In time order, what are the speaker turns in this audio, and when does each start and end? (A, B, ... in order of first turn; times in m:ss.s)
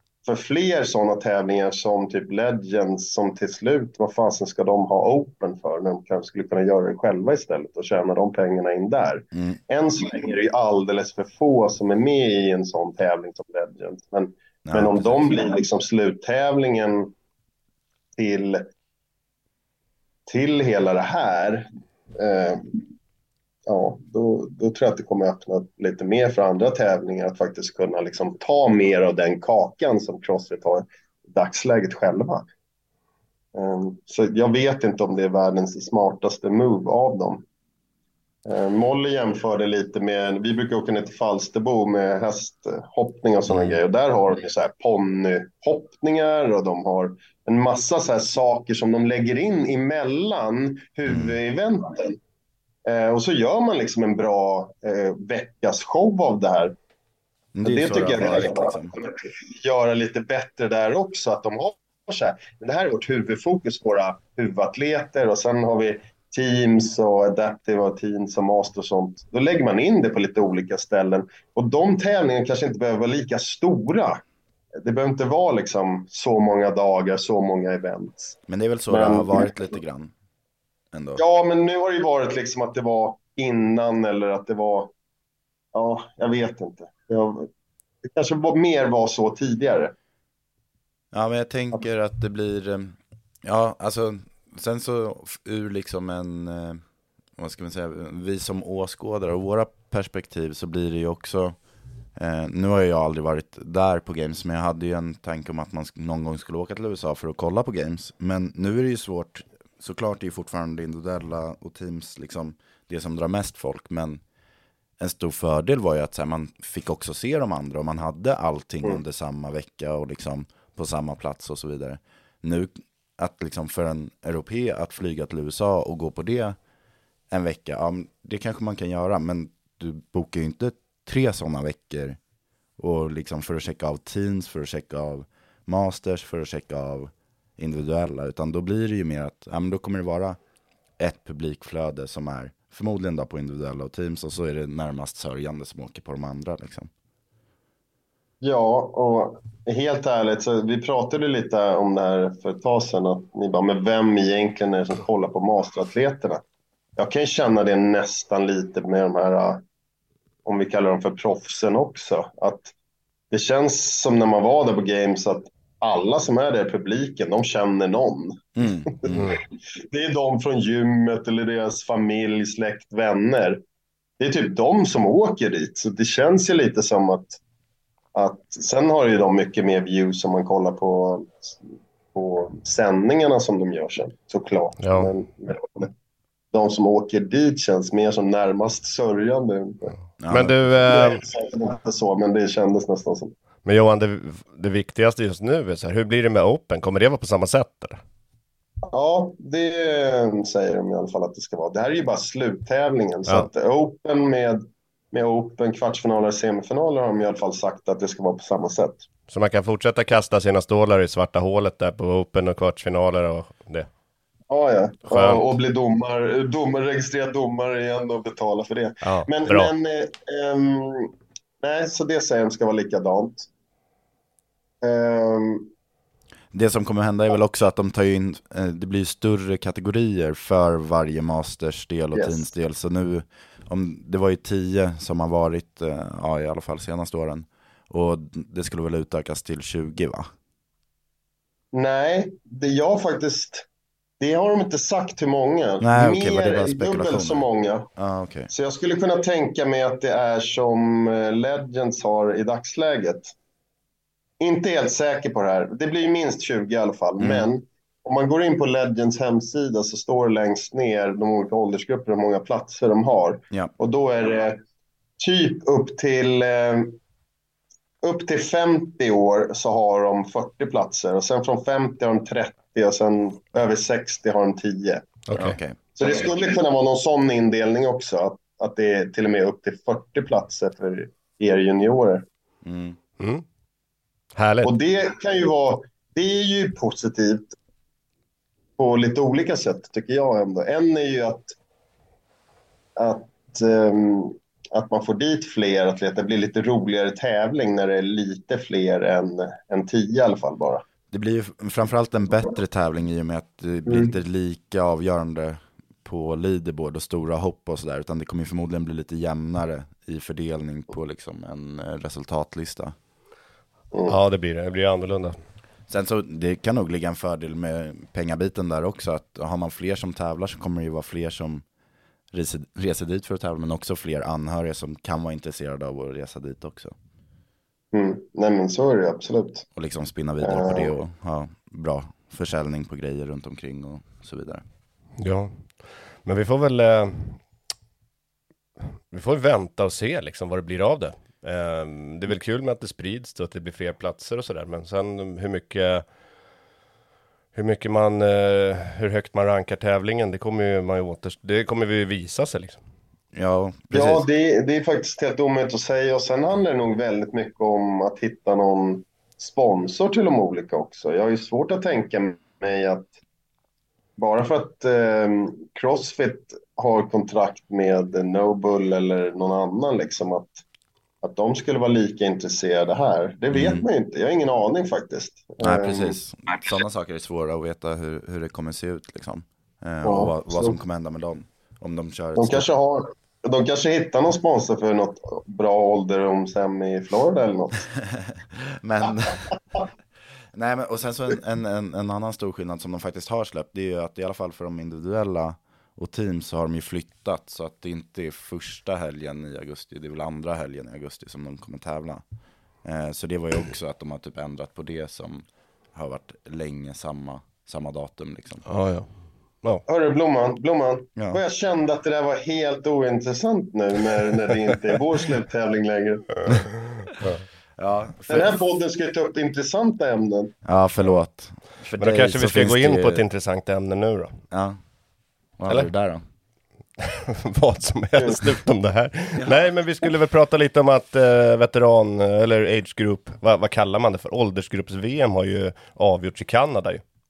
0:00.2-0:17.1 A
0:09.3-0:09.6 B
0:14.6-0:15.3 B
0:18.2-0:18.6 A
0:20.3-0:22.8 A
0:23.7-0:32.4 A
0:33.5-0:37.4 A
0:38.5-0:52.2 A
0:43.5-0:43.8 B
0:51.1-0:51.4 B
0:52.9-0:56.8 A
0:57.5-0:58.9 B
0:57.6-1:14.2 A
1:14.8-1:18.4 A
1:18.5-1:20.1 B
1:18.9-1:19.5 A
1:20.9-1:21.2 B
1:21.2-1:24.9 A
1:25.7-1:27.5 A
1:28.0-1:29.9 A
1:31.1-1:36.8 B
1:37.4-1:41.6 B
1:42.2-1:54.2 B
1:55.0-2:06.6 B
2:07.3-2:12.2 B
2:12.8-2:20.4 B
2:21.0-2:26.9 B
2:28.4-2:36.4 A
2:37.0-2:39.6 A
2:40.4-2:42.7 A
2:43.3-2:53.6 A
2:48.6-2:49.3 B
2:49.1-2:49.4 C
2:54.2-2:57.4 A
2:58.2-3:05.9 A
3:04.8-3:05.1 C
3:06.5-3:10.0 A
3:10.2-3:10.7 B
3:10.3-3:11.2 C
3:10.9-3:13.3 A
3:13.6-3:18.0 C
3:18.9-3:29.0 A
3:29.3-3:33.9 C
3:34.5-3:43.5 A
3:35.1-3:35.5 C
3:39.0-3:39.7 C
3:44.8-3:45.7 A
3:46.5-4:00.3 B
3:52.1-3:52.5 A
4:01.7-4:03.7 A
4:04.2-4:07.9 A
4:05.8-4:07.4 B
4:08.0-4:08.5 B
4:08.5-4:13.4 A
4:14.4-4:24.6 A
4:17.2-4:17.5 B
4:25.2-4:27.0 A
4:28.0-4:35.1 A
4:35.3-4:35.6 C
4:35.4-4:35.8 B
4:36.0-4:42.2 A
4:42.6-4:43.0 B
4:44.4-4:44.7 C
4:44.6-4:47.6 A
4:48.8-4:51.6 A
4:53.0-5:00.8 A
5:01.1-5:13.0 B
5:14.1-5:15.4 C
5:15.9-5:21.6 B
5:22.3-5:26.9 B
5:27.9-5:29.7 A
5:29.8-5:34.6 B
5:30.4-5:31.0 A
5:35.2-5:35.7 C
5:36.2-5:37.4 C
5:39.1-5:46.0 C
5:47.5-5:52.8 C
5:53.3-5:54.3 B
5:53.9-6:03.1 A
6:04.2-6:10.6 A
6:11.2-6:16.2 A
6:13.5-6:13.9 B
6:15.6-6:22.7 B
6:20.0-6:20.8 A
6:22.4-6:27.8 A
6:28.1-6:29.8 B
6:30.5-6:42.2 B
6:42.8-6:48.7 B
6:48.7-6:49.1 C
6:49.9-6:56.5 A
6:57.8-6:58.6 B
6:58.3-7:00.5 A
7:00.6-7:03.2 B
7:02.0-7:04.4 C
7:04.5-7:04.8 B
7:05.6-7:06.2 B
7:07.0-7:17.0 C
7:08.2-7:08.5 A